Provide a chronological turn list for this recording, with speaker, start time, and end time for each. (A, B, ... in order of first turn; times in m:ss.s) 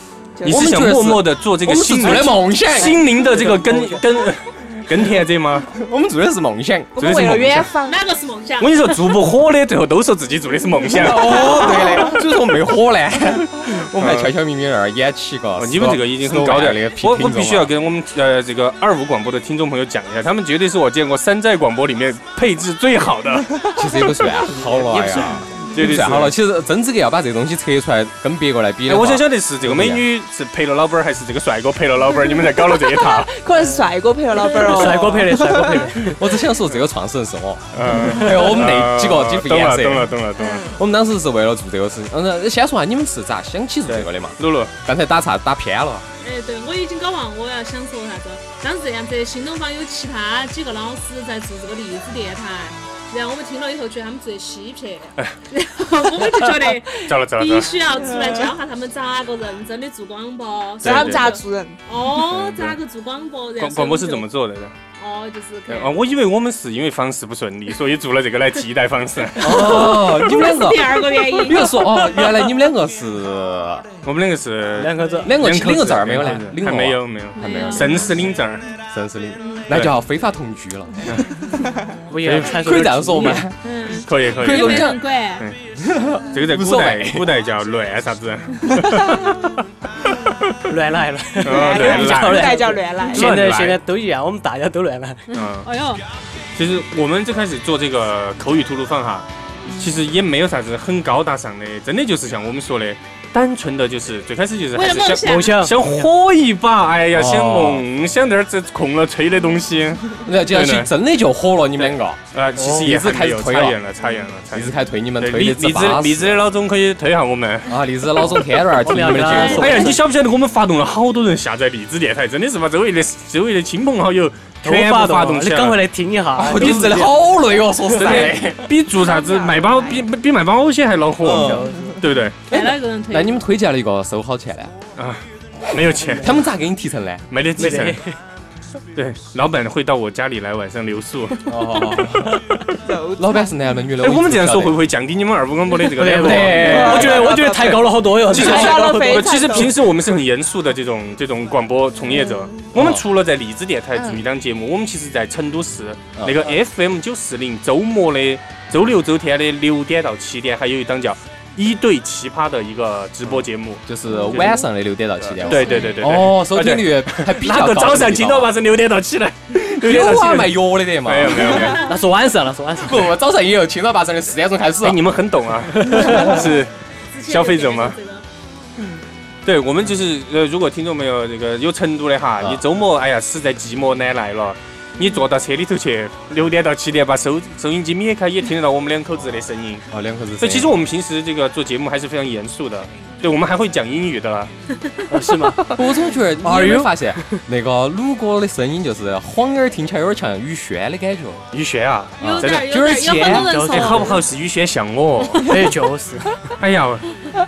0:00.4-0:00.7 A
0:00.4-0:05.7 B
0:00.5-0:03.0 C
0:01.9-0:04.1 D
0:05.7-0:07.3 C
0:07.0-0:08.0 A
0:07.0-0:07.7 B
0:07.8-0:08.8 E
0:08.6-0:11.8 B
0:10.9-0:17.7 C
0:11.7-0:12.0 A
0:14.0-0:14.3 B
0:15.6-0:23.5 B
0:23.7-0:24.3 A
0:23.7-0:30.0 C
0:24.6-0:25.5 D
0:25.6-0:25.9 A
0:25.7-0:26.4 B
0:28.9-0:33.4 B
0:32.2-0:36.1 A
0:34.5-0:36.1 D
0:34.6-0:35.2 B
0:36.0-0:46.1 C
0:37.7-0:40.6 B
0:38.0-0:38.2 D
0:40.4-0:40.8 A
0:43.9-0:44.7 B
0:46.2-1:04.3 E
0:56.4-0:56.7 A
0:57.0-0:57.8 B
0:58.0-0:58.5 A
1:00.8-1:01.4 B
1:00.8-1:01.8 A
1:02.1-1:02.8 B
1:03.6-1:04.7 B
1:05.0-1:06.0 E
1:05.7-1:09.6 B
1:09.4-1:13.9 C
1:09.5-1:10.0 D
1:09.5-1:11.9 E
1:14.0-1:18.7 B
1:14.8-1:15.4 D
1:15.2-1:17.0 C
1:17.4-1:18.1 E
1:17.5-1:17.9 C
1:18.8-1:21.3 C
1:19.4-1:19.7 E
1:21.6-1:21.9 A
1:22.1-1:23.5 D
1:22.2-1:22.6 B
1:22.5-1:23.6 C
1:23.6-1:25.4 E
1:24.0-1:25.6 B
1:24.4-1:25.0 C
1:25.8-1:27.3 C
1:26.3-1:30.6 B
1:30.7-1:35.3 D
1:31.4-1:33.8 B
1:31.5-1:33.4 A
1:35.3-1:36.0 E
1:35.3-1:35.7 B
1:36.6-1:50.9 B
1:44.8-1:45.6 E
1:45.2-1:46.1 D
1:47.1-1:47.8 C
1:50.2-1:53.8 C
1:51.8-1:57.7 B
1:52.6-1:52.9 D
1:54.5-1:56.4 C
1:57.7-1:59.9 C
1:58.8-2:00.0 D
1:59.3-1:59.9 E
1:59.5-2:05.8 B
2:04.6-2:07.1 D
2:06.4-2:08.7 C
2:06.6-2:06.9 B
2:07.7-2:08.4 D
2:08.0-2:12.4 B
2:09.0-2:10.1 A
2:11.2-2:11.7 C
2:11.3-2:12.0 D
2:11.5-2:12.0 A
2:12.5-2:13.4 E
2:12.5-2:14.7 C
2:15.0-2:16.5 B
2:16.2-2:17.9 C
2:17.3-2:18.0 B
2:17.6-2:18.2 D
2:19.0-2:22.8 B
2:21.5-2:22.4 C
2:22.8-2:23.6 A
2:23.2-2:24.8 C
2:24.0-2:44.6 B
2:25.9-2:29.7 D
2:26.2-2:27.4 C
2:26.6-2:27.7 A
2:28.3-2:29.9 A
2:32.0-2:32.7 A
2:32.7-2:33.0 C
2:34.0-2:34.2 A
2:43.3-2:48.5 C
2:44.1-2:44.6 A
2:45.3-2:51.9 B
2:45.4-2:46.1 A
2:49.7-2:51.7 C
2:51.7-2:53.1 D
2:52.8-2:55.0 C
2:54.8-2:56.7 B
2:55.7-2:56.4 D
2:57.1-2:58.2 E
2:57.3-2:58.0 B
2:59.4-3:09.8 B
3:09.9-3:10.8 C
3:10.4-3:14.5 B
3:15.1-3:15.8 D
3:15.7-3:21.4 C
3:16.4-3:17.4 D
3:21.5-3:22.8 B
3:22.2-3:24.2 E
3:22.2-3:23.6 C
3:23.0-3:24.2 D
3:23.7-3:25.6 B
3:25.4-3:26.4 D
3:26.6-3:27.1 B